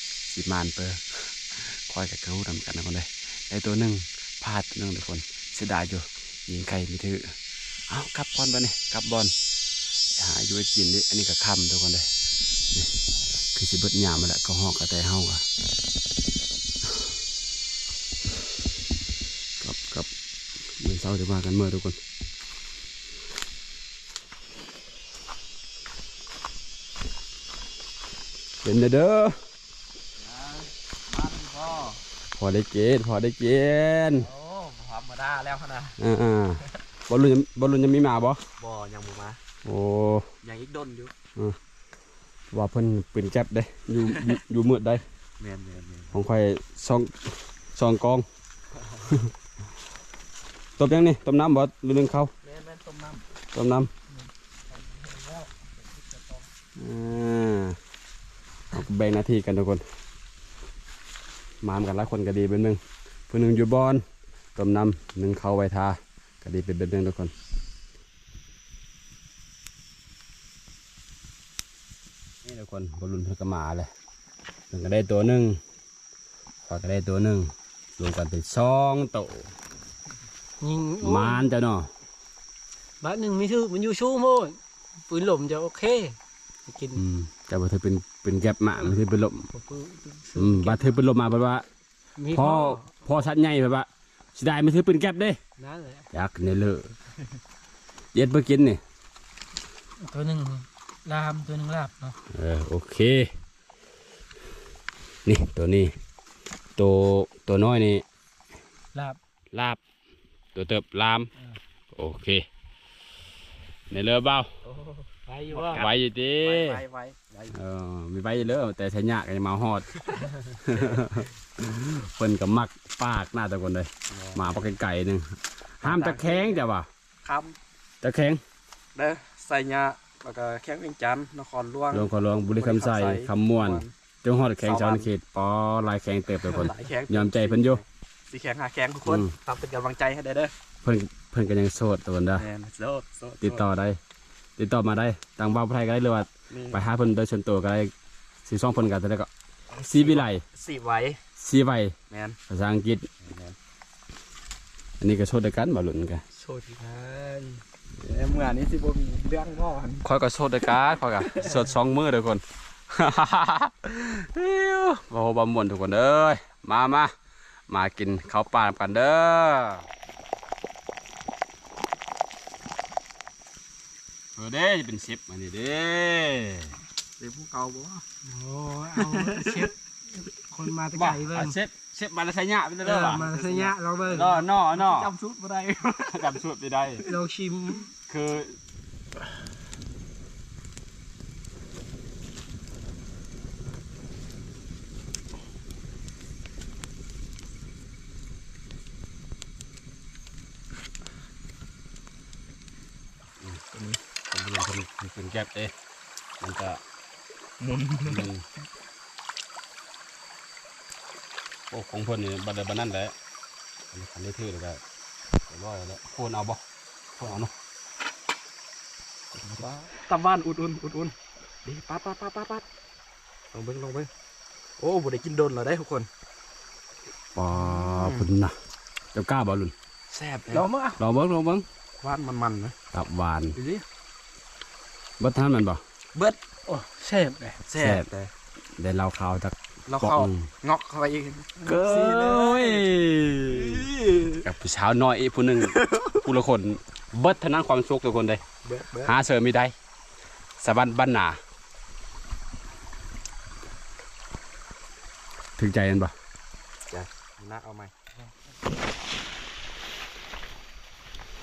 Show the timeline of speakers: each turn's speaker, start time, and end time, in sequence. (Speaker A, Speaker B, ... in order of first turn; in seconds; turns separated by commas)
Speaker A: 0.3-7.4, Speaker A: 7.9-9.3, Speaker A: 10.2-12.1, Speaker A: 12.7-15.4, Speaker A: 19.6-20.1, Speaker A: 20.8-22.0, Speaker A: 28.6-29.4, Speaker B: 30.2-32.0, Speaker A: 32.3-34.3, Speaker B: 34.1-36.0, Speaker A: 36.0-38.4, Speaker B: 38.6-39.4, Speaker A: 39.6-40.3, Speaker B: 40.4-41.1, Speaker A: 42.5-45.0, Speaker B: 44.0-44.3, Speaker B: 45.4-46.2, Speaker A: 46.1-48.2, Speaker A: 49.1-49.3, Speaker A: 50.8-52.3, Speaker B: 52.4-53.2, Speaker A: 53.5-53.9, Speaker C: 54.1-56.4, Speaker A: 56.8-57.8, Speaker A: 58.7-59.8, Speaker A: 61.6-64.0, Speaker A: 64.5-67.3, Speaker A: 72.4-73.9, Speaker A: 74.7-75.6, Speaker A: 76.7-79.5, Speaker C: 80.6-81.4, Speaker A: 81.0-81.9, Speaker C: 83.0-87.0, Speaker A: 86.9-89.5, Speaker C: 89.5-91.0, Speaker A: 90.3-91.7, Speaker C: 92.2-92.8, Speaker A: 92.3-95.4, Speaker C: 95.6-96.1, Speaker A: 96.1-96.9, Speaker A: 98.1-98.8, Speaker C: 100.0-102.2, Speaker A: 102.3-103.3, Speaker A: 105.2-106.0, Speaker A: 106.8-108.0, Speaker A: 109.5-109.8, Speaker A: 110.5-111.3, Speaker A: 111.9-112.5, Speaker A: 113.9-114.5, Speaker B: 114.6-117.6, Speaker C: 115.3-115.9, Speaker A: 115.7-116.8, Speaker A: 117.5-120.1, Speaker A: 120.6-126.9, Speaker B: 124.1-124.7, Speaker B: 125.8-126.6, Speaker B: 127.2-127.6, Speaker A: 128.0-128.4, Speaker B: 128.9-133.9, Speaker A: 131.9-137.8, Speaker B: 134.6-135.1, Speaker B: 136.4-140.5, Speaker A: 139.1-139.3, Speaker A: 140.8-142.4, Speaker B: 142.3-143.7, Speaker A: 143.4-144.0, Speaker A: 144.6-147.9, Speaker B: 146.5-146.8, Speaker A: 148.4-150.4, Speaker B: 149.7-151.2, Speaker A: 151.4-151.9, Speaker B: 152.1-152.4, Speaker A: 152.5-153.1, Speaker B: 153.2-153.6, Speaker A: 155.0-156.2, Speaker B: 156.4-157.0, Speaker C: 156.7-157.6, Speaker B: 158.0-160.0, Speaker A: 160.0-167.1, Speaker A: 167.7-169.8, Speaker A: 174.3-176.8, Speaker B: 177.2-178.0, Speaker C: 178.2-181.6, Speaker A: 180.9-183.3, Speaker C: 182.8-184.4, Speaker B: 183.1-183.8, Speaker A: 184.0-185.1, Speaker B: 184.7-186.4, Speaker A: 186.1-187.0, Speaker C: 187.0-187.9, Speaker A: 188.1-188.6, Speaker B: 203.7-204.0, Speaker A: 204.3-205.7, Speaker A: 206.4-206.8, Speaker B: 207.6-208.3, Speaker A: 208.0-208.4, Speaker A: 211.7-213.1, Speaker A: 213.9-214.8, Speaker A: 215.5-216.6, Speaker A: 217.2-217.5, Speaker B: 219.4-222.6, Speaker B: 223.5-224.1, Speaker B: 224.8-226.1, Speaker A: 227.3-228.6, Speaker B: 227.5-228.3, Speaker A: 229.1-229.7, Speaker B: 230.1-230.6, Speaker C: 230.5-231.0, Speaker A: 231.0-231.7, Speaker B: 232.0-232.7, Speaker A: 232.9-233.6, Speaker B: 233.5-233.8, Speaker A: 235.2-235.8, Speaker C: 236.7-237.6, Speaker B: 237.7-238.3, Speaker A: 237.7-238.1, Speaker A: 238.8-240.5, Speaker B: 239.9-242.8, Speaker A: 241.6-243.9, Speaker B: 243.5-244.4, Speaker A: 244.4-248.4, Speaker B: 245.7-246.2, Speaker B: 248.6-249.1, Speaker A: 249.0-249.7, Speaker A: 250.6-251.4, Speaker A: 255.6-256.1, Speaker B: 256.9-257.9